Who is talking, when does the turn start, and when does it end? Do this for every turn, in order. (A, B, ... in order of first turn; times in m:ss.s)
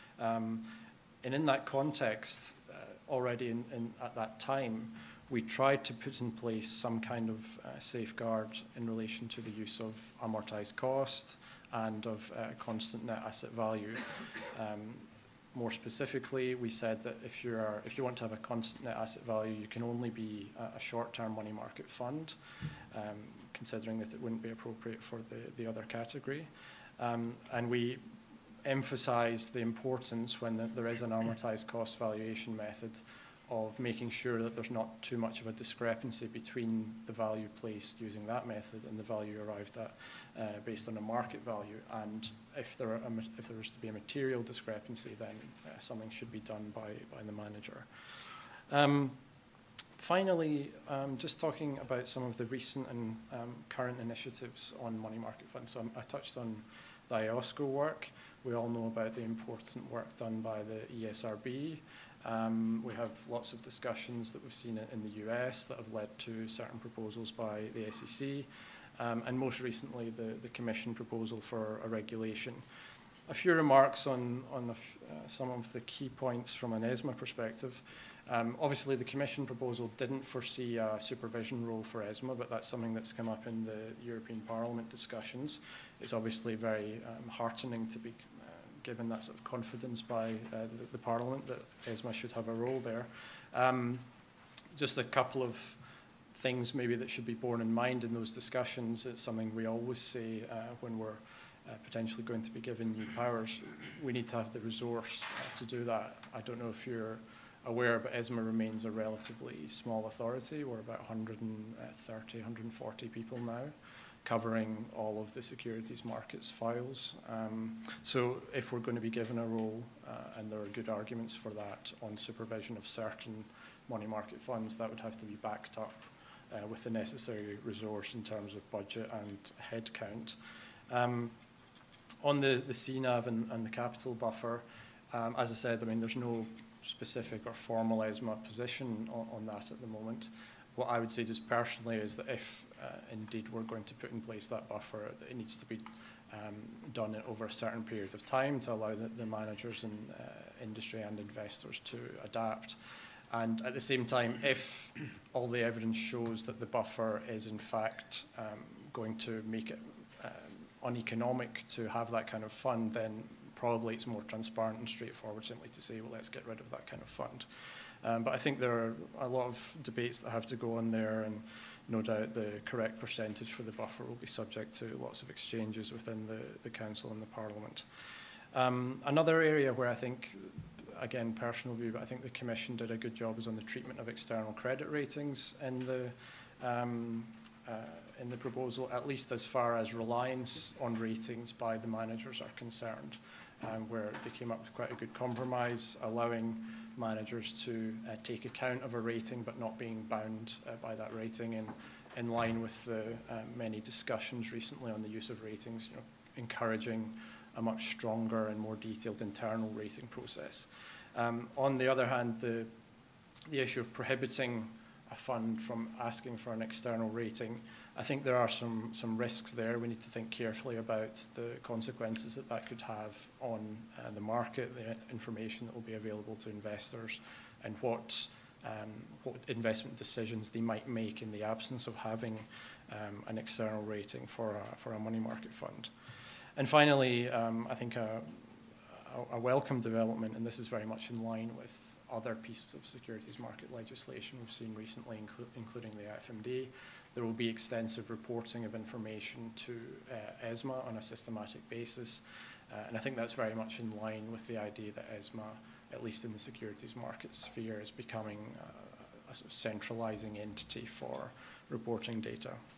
0:00.2-0:28.0 A
0:28.6-0:49.2 A
0:50.0-1:12.6 A
1:13.3-1:34.1 A
1:34.8-1:35.8 A
1:36.3-2:10.4 A
2:10.9-2:11.4 A
2:12.2-2:32.8 A
2:33.3-2:57.9 A
2:58.5-3:32.7 A
3:33.5-3:55.9 A
3:56.6-4:22.6 A